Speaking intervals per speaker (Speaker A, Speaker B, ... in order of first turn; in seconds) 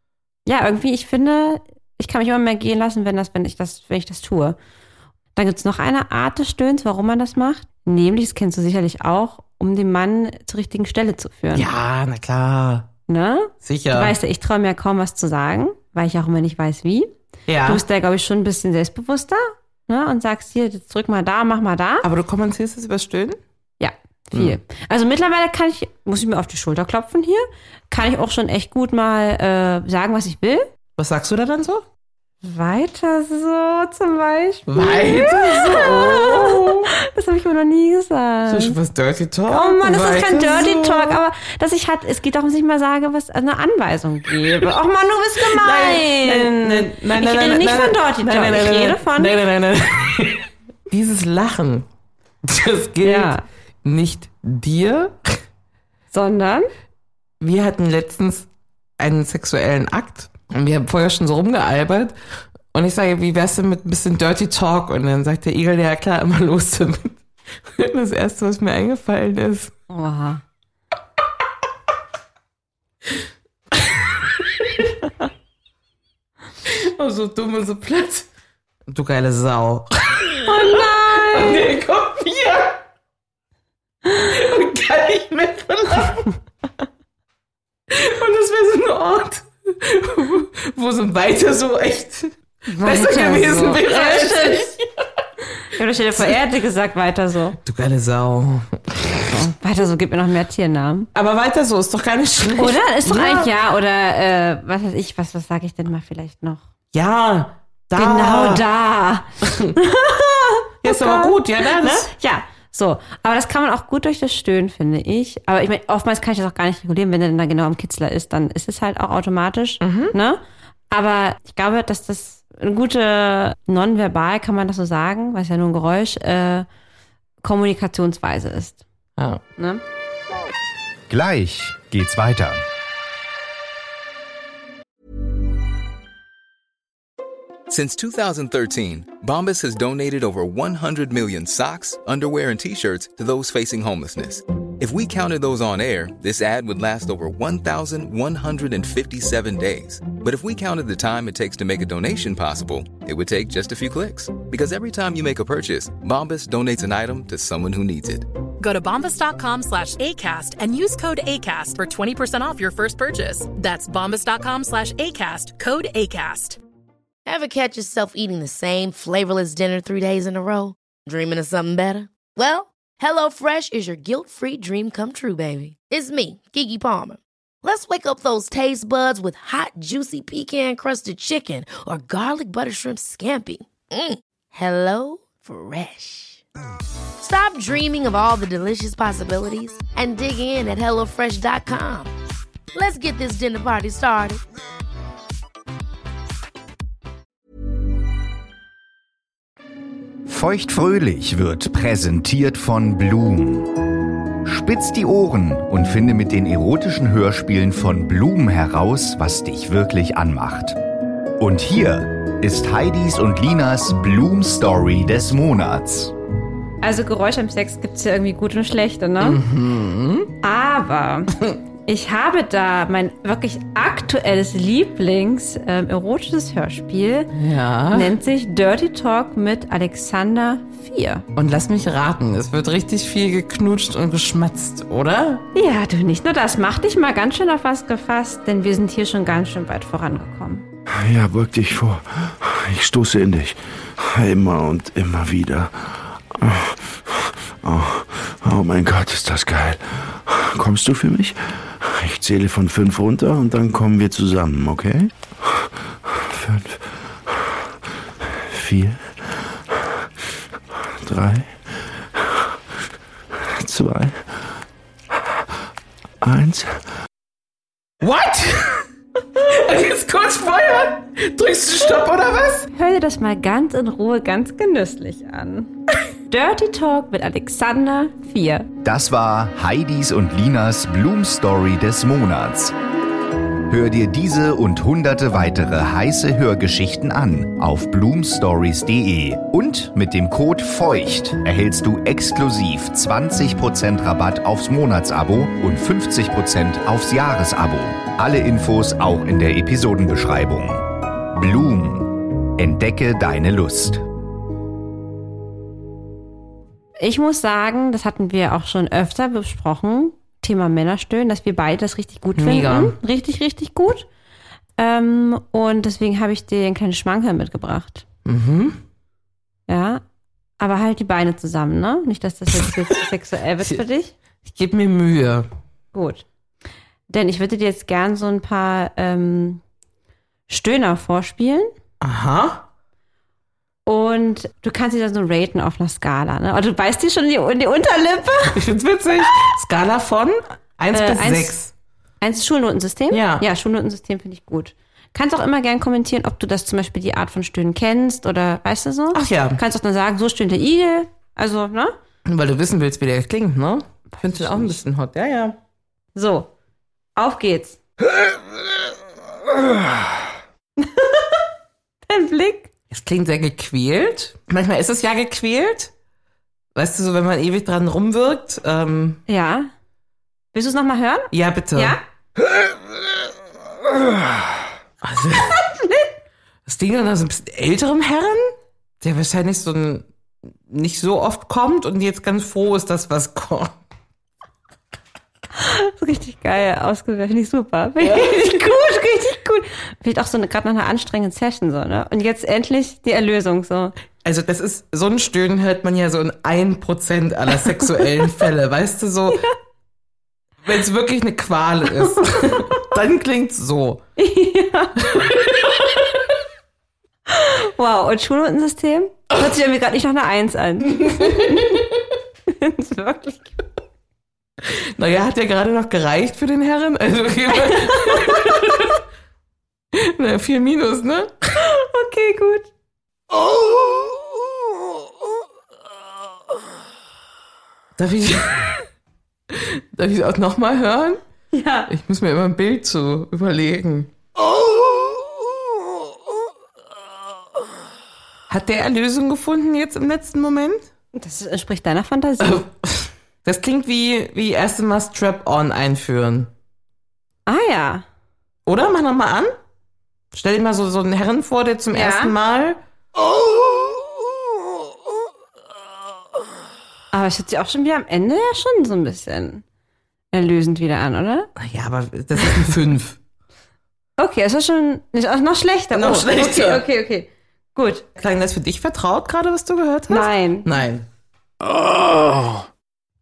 Speaker A: 0.5-4.6, 5.3-11.7, 13.1-17.1, 17.6-22.1, 23.8-30.7, 32.4-38.8, 39.5-49.3, 53.0-53.4, 56.1-56.7, 69.9-70.4, 80.5-81.6, 92.7-94.7, 95.8-97.6, 99.3-101.1, 102.5-106.6, 108.0-126.7, 127.4-128.8, 129.6-129.8, 216.8-219.4, 220.4-227.3, 227.9-231.2, 235.5-240.7, 272.7-275.7, 276.3-278.7, 307.0-314.1, 314.8-318.1, 319.7-320.0, 320.6-324.1, 325.9-326.2, 327.1-329.6, 330.5-331.7, 333.9-338.6, 340.9-341.6, 342.2-351.9, 354.1-354.7, 356.1-356.5, 357.1-357.8, 360.8-361.1, 362.1-362.7, 369.3-369.7, 370.5-372.0, 375.7-376.1, 385.6-393.9, 402.3-402.6, 404.2-405.0, 407.3-411.8, 412.5-413.6, 418.0-418.4, 421.6-422.7, 431.5-431.9, 441.1-442.6, 447.5-448.0, 451.9-452.3, 457.1-459.6, 460.3-461.5, 464.2-468.1, 470.1-470.7
Speaker B: 11.5-12.9, 13.6-14.1, 17.5-17.8, 22.0-23.4, 31.0-31.8, 34.7-36.9, 38.5-41.2, 45.4-51.9, 52.4-55.4, 57.4-58.5, 59.0-62.1, 62.7-67.2, 67.7-69.7, 76.6-78.3, 78.9-82.8, 84.1-86.4, 87.9-95.0, 97.6-99.0, 101.1-103.5, 106.9-108.6, 109.5-109.7, 110.8-112.1, 119.8-120.1, 129.2-129.4, 219.2-220.3, 227.3-228.1, 231.3-235.4, 268.0-272.7, 312.3-313.0, 318.2-318.8, 324.4-325.5, 332.0-332.6, 338.5-341.7, 343.1-343.4, 349.1-349.6, 352.2-355.6, 362.9-365.9, 366.7-369.2, 371.3-372.0, 375.0-375.6, 376.6-383.7, 388.0-388.4, 394.2-399.4, 400.6-404.0, 405.0-405.9, 410.9-411.9, 414.6-419.0, 419.9-421.4, 428.0-428.8, 429.5-431.2, 431.9-434.1, 438.5-440.9, 442.4-446.5, 448.6-449.6, 450.3-452.8, 461.6-463.2, 465.9-466.8, 468.2-471.1
Speaker C: 131.1-132.6, 200.2-203.8, 204.4-210.8, 211.4-216.1, 278.8-282.7, 283.7-304.1
Speaker D: 137.7-158.2
Speaker E: 158.6-166.6
Speaker F: 167.2-186.4, 187.2-192.1, 192.7-194.4
Speaker G: 240.9-260.1, 260.7-262.6, 263.4-264.6, 266.2-266.8